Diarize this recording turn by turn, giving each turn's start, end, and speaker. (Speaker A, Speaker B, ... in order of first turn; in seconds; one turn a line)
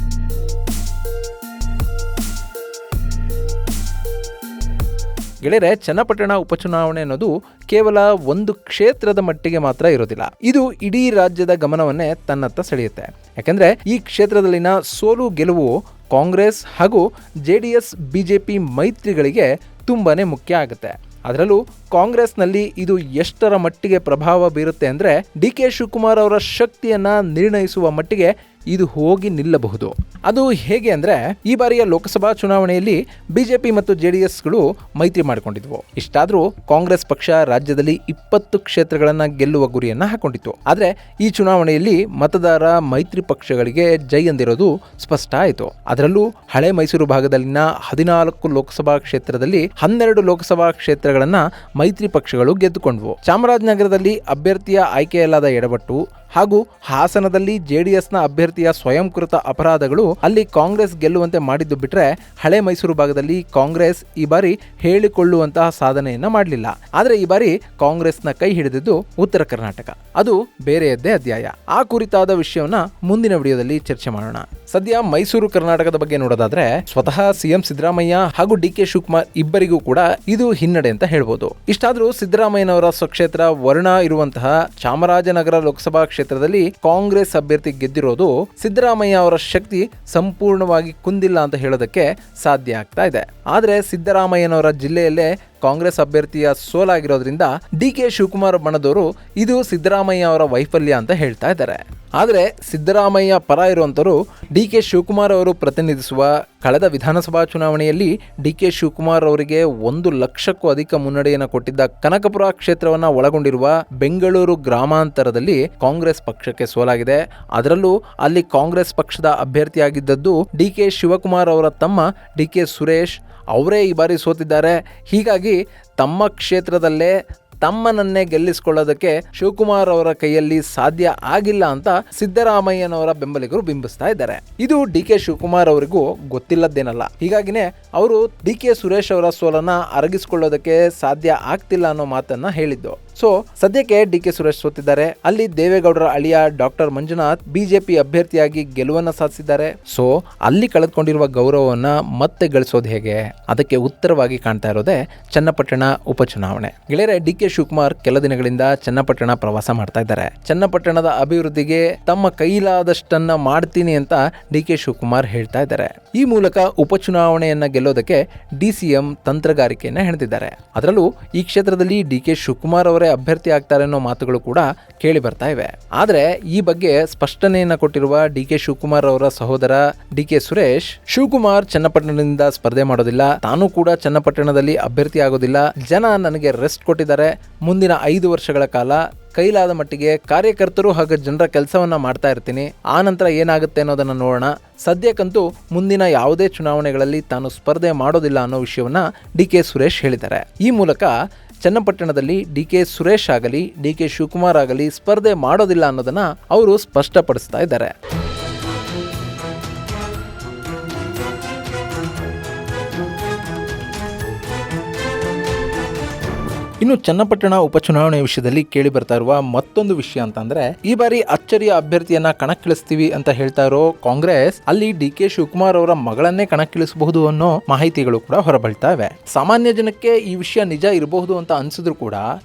Speaker A: 5.4-207.9
Speaker A: 216.8-232.3